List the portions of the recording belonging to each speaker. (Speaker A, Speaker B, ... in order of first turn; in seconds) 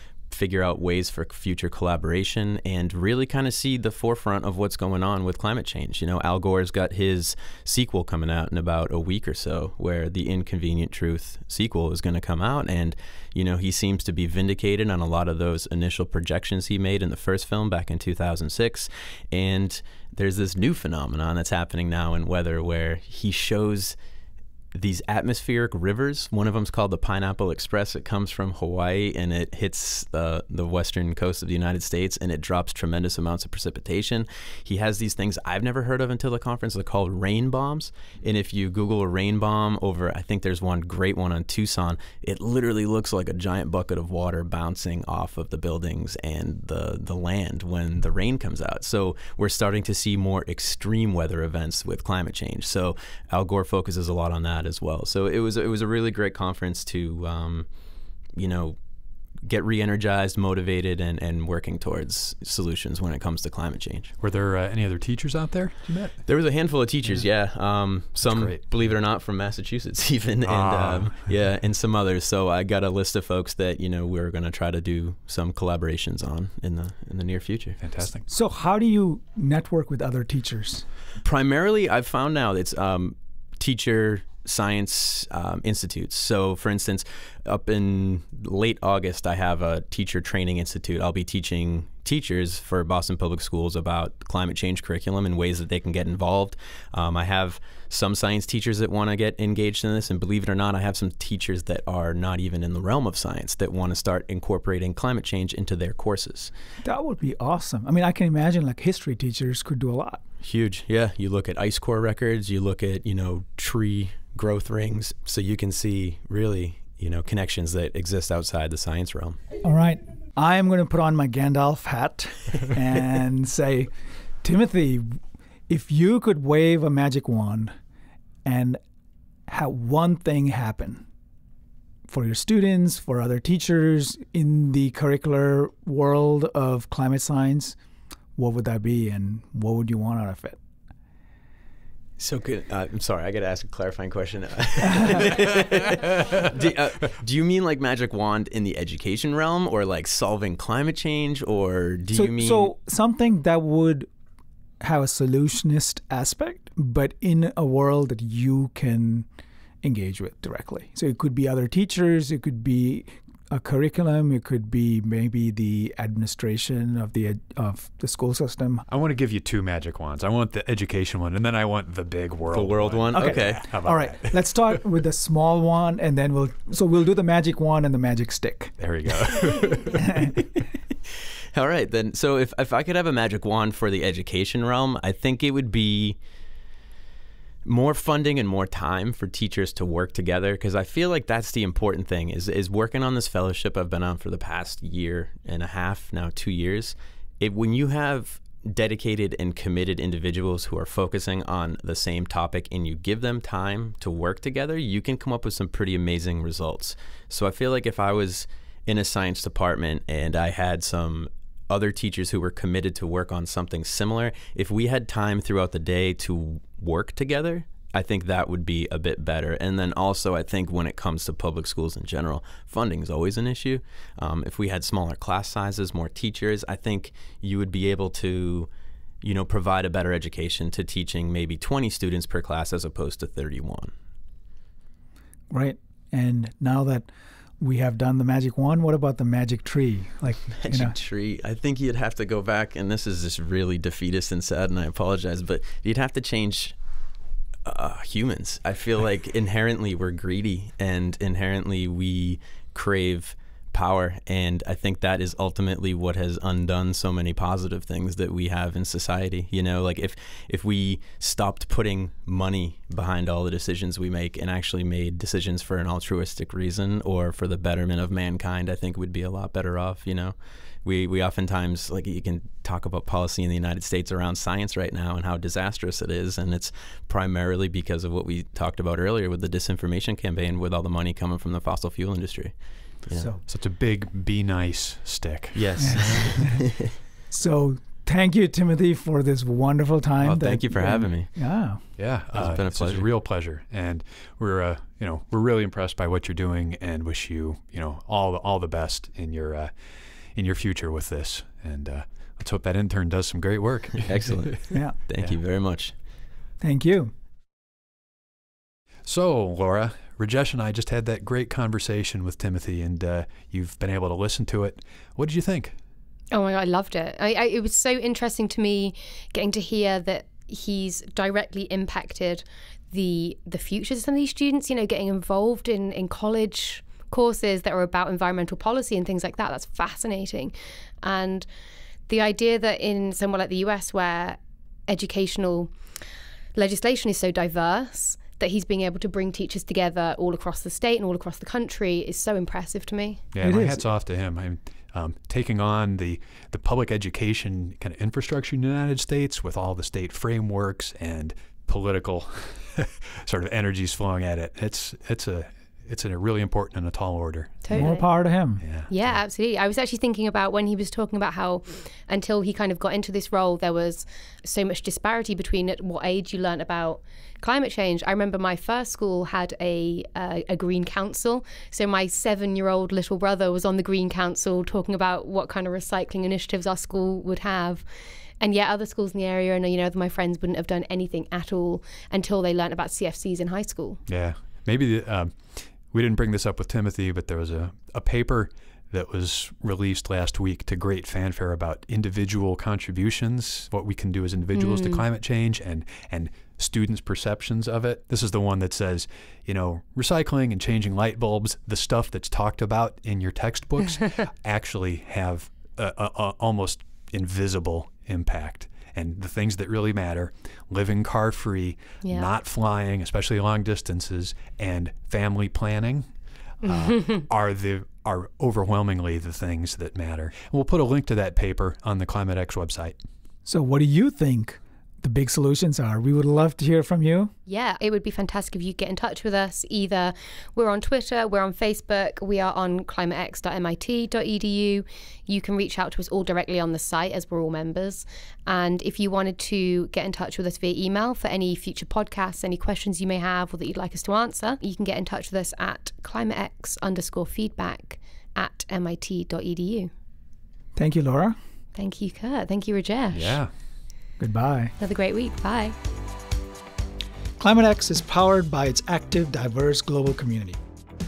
Speaker A: 0.3-23.9, 24.7-57.7, 58.4-58.8, 59.4-64.1, 66.2-77.8, 81.2-106.5, 110.4-119.4, 142.2-152.7, 172.5-173.7, 181.5-186.2, 187.6-228.7, 229.2-233.9, 240.5-246.8, 247.6-283.3, 285.5-286.8, 290.2-291.3, 292.3-293.1, 304.0-305.9
Speaker B: 64.2-66.2, 68.2-68.6, 70.4-71.3, 77.8-78.2, 168.9-174.4, 178.8-180.0, 283.4-286.4, 292.0-304.5, 309.1-315.8, 343.3-358.0, 358.6-359.2, 384.1-423.0, 453.1-453.5
Speaker C: 78.3-80.8, 106.8-110.2, 119.6-123.9, 124.4-127.7, 128.4-128.8, 129.5-131.0, 132.1-137.8, 138.3-140.6, 152.1-154.1, 154.8-159.3, 159.8-168.8, 173.1-178.7, 180.0-180.3, 235.5-237.1, 237.6-240.9, 283.1-283.4, 285.8-286.6, 287.3-291.8, 304.7-304.9, 306.6-307.1, 343.4-343.9, 357.7-358.6, 423.4-427.3, 450.8-451.4, 454.2-454.7, 457.4-460.6
Speaker D: 316.3-331.4, 332.1-335.7, 336.5-343.2, 357.6-358.4, 358.9-377.9, 378.4-384.0, 394.5-395.0, 412.0-412.3, 416.7-417.2, 427.5-449.9, 451.8-453.4, 454.8-455.7